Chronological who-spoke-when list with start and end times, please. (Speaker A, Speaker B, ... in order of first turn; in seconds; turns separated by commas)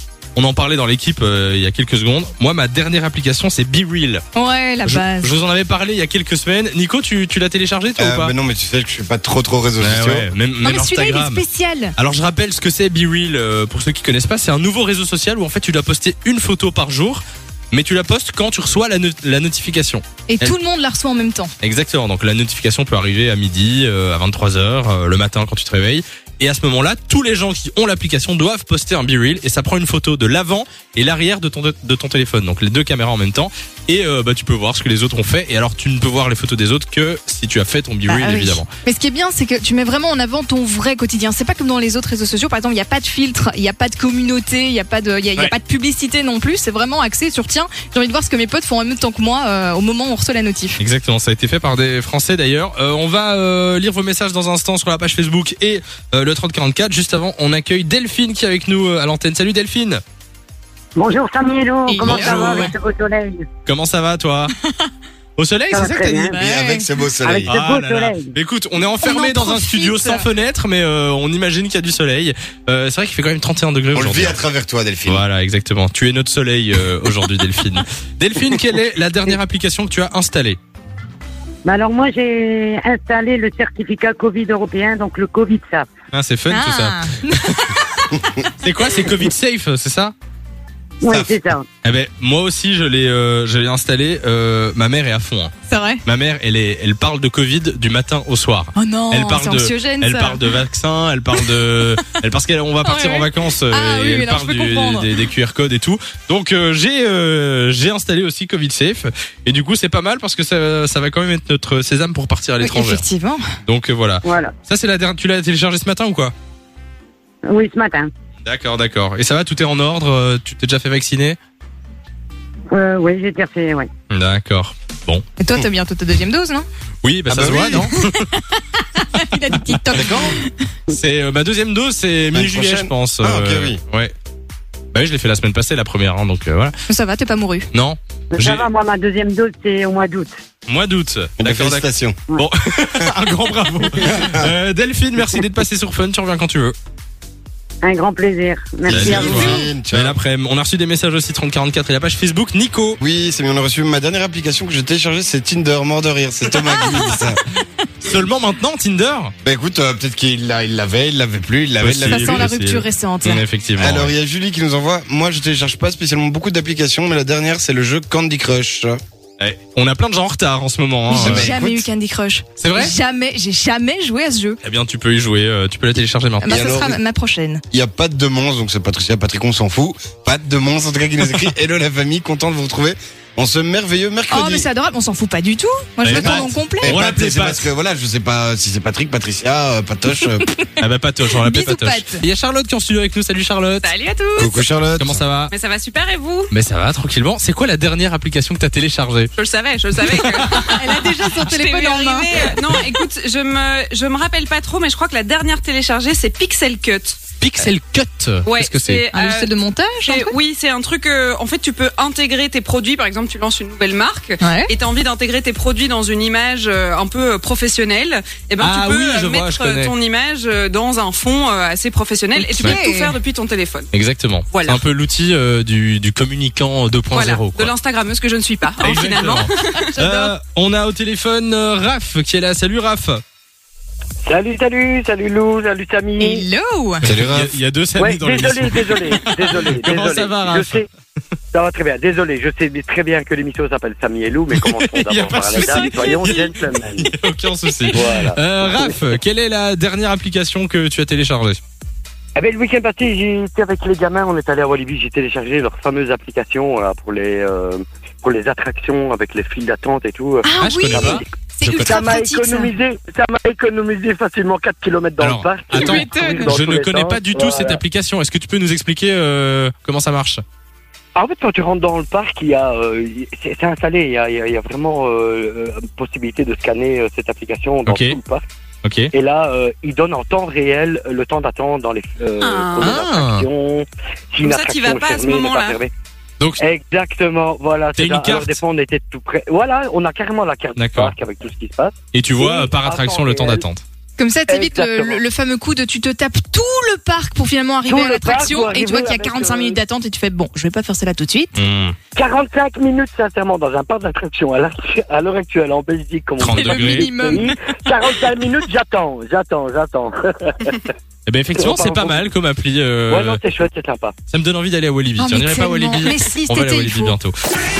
Speaker A: 0.3-4.2, Speaker B: 4.3-5.3, Speaker A: 4.8-8.3, Speaker C: 8.0-10.3, Speaker A: 9.8-11.4, Speaker B: 10.6-11.9, Speaker A: 11.9-20.6, Speaker B: 20.3-21.5, Speaker A: 21.6-38.7, Speaker B: 38.1-50.8, Speaker A: 50.8-60.0, Speaker D: 61.0-63.5, Speaker B: 61.9-62.7, Speaker A: 62.0-62.7, Speaker A: 63.6-64.5, Speaker B: 64.6-64.9, Speaker A: 65.4-66.3, Speaker D: 65.7-66.3, Speaker B: 66.2-66.9, Speaker C: 66.3-67.5, Speaker D: 67.2-68.3, Speaker A: 67.5-74.4, Speaker B: 69.0-70.3, Speaker C: 73.9-75.2, Speaker A: 75.0-80.6, Speaker D: 81.6-85.9, Speaker A: 86.1-87.0, Speaker B: 86.5-88.2, Speaker A: 88.6-90.1, Speaker D: 91.0-91.6, Speaker C: 91.0-91.5, Speaker A: 91.8-95.5, Speaker B: 95.7-96.0, Speaker A: 96.0-113.0, Speaker B: 98.7-100.6, Speaker B: 101.3-102.1, Speaker B: 102.8-105.3, Speaker B: 112.6-113.4, Speaker A: 113.6-116.3, Speaker D: 114.2-114.5, Speaker D: 117.5-118.1, Speaker A: 118.4-121.4, Speaker D: 122.7-123.9, Speaker A: 124.1-125.2, Speaker B: 125.4-126.7, Speaker A: 127.0-128.2, Speaker C: 127.3-127.9, Speaker B: 127.8-130.7, Speaker A: 129.9-130.3, Speaker C: 130.0-130.3, Speaker A: 130.9-134.1, Speaker C: 132.3-133.8, Speaker A: 134.9-136.7, Speaker B: 136.9-137.7, Speaker A: 137.7-138.7, Speaker D: 138.3-140.3, Speaker A: 140.7-146.7, Speaker C: 141.4-142.2, Speaker C: 143.9-144.5, Speaker D: 147.8-149.6, Speaker C: 148.8-150.2, Speaker A: 148.9-153.0, Speaker C: 153.0-157.4, Speaker A: 158.0-159.3, Speaker C: 159.4-162.5, Speaker A: 161.8-164.1, Speaker B: 162.1-163.4, Speaker C: 163.8-169.0, Speaker A: 169.4-171.5, Speaker B: 171.1-174.6, Speaker C: 171.2-171.9, Speaker A: 172.6-172.9, Speaker A: 174.6-176.5, Speaker B: 176.4-177.6, Speaker C: 176.5-177.0, Speaker C: 177.7-184.7, Speaker B: 184.3-186.9, Speaker A: 186.0-187.7, Speaker C: 186.1-190.5, Speaker A: 190.8-193.9, Speaker B: 191.4-192.2, Speaker E: 193.8-194.7, Speaker C: 194.3-195.2, Speaker A: 195.0-195.5, Speaker E: 195.5-196.5, Speaker A: 196.5-199.3, Speaker E: 199.3-207.2, Speaker B: 200.7-202.5, Speaker A: 207.4-209.0, Speaker E: 208.4-209.5, Speaker B: 209.1-210.3, Speaker E: 210.1-223.9, Speaker B: 214.4-214.7, Speaker A: 218.6-219.9, Speaker B: 222.3-223.2, Speaker A: 223.9-227.7, Speaker E: 224.5-224.8, Speaker E: 227.1-230.3, Speaker A: 228.8-233.2, Speaker B: 229.8-230.2, Speaker F: 234.2-236.4, Speaker B: 236.2-237.0, Speaker C: 237.0-237.5, Speaker A: 237.0-240.8, Speaker F: 238.0-240.9, Speaker F: 241.5-247.1, Speaker A: 244.5-246.4, Speaker B: 245.6-246.4, Speaker A: 247.0-251.6, Speaker F: 247.9-249.0, Speaker F: 252.3-267.8, Speaker B: 260.4-262.7, Speaker A: 260.6-262.0, Speaker A: 265.2-270.4, Speaker E: 265.7-266.5, Speaker F: 271.1-278.4, Speaker A: 277.9-278.2, Speaker A: 278.8-279.1, Speaker F: 279.1-285.9, Speaker E: 282.4-283.0, Speaker A: 282.8-283.5, Speaker E: 284.4-285.8, Speaker F: 286.6-293.6, Speaker A: 287.9-288.6, Speaker A: 290.8-291.1, Speaker A: 292.1-293.8, Speaker B: 294.2-301.6, Speaker F: 294.5-295.2, Speaker F: 297.8-299.8, Speaker A: 301.5-301.9, Speaker F: 302.1-310.7, Speaker A: 306.4-307.1, Speaker B: 306.4-308.2, Speaker A: 311.2-313.4, Speaker F: 311.6-312.2, Speaker F: 313.1-314.1, Speaker A: 314.3-317.3, Speaker B: 315.2-317.2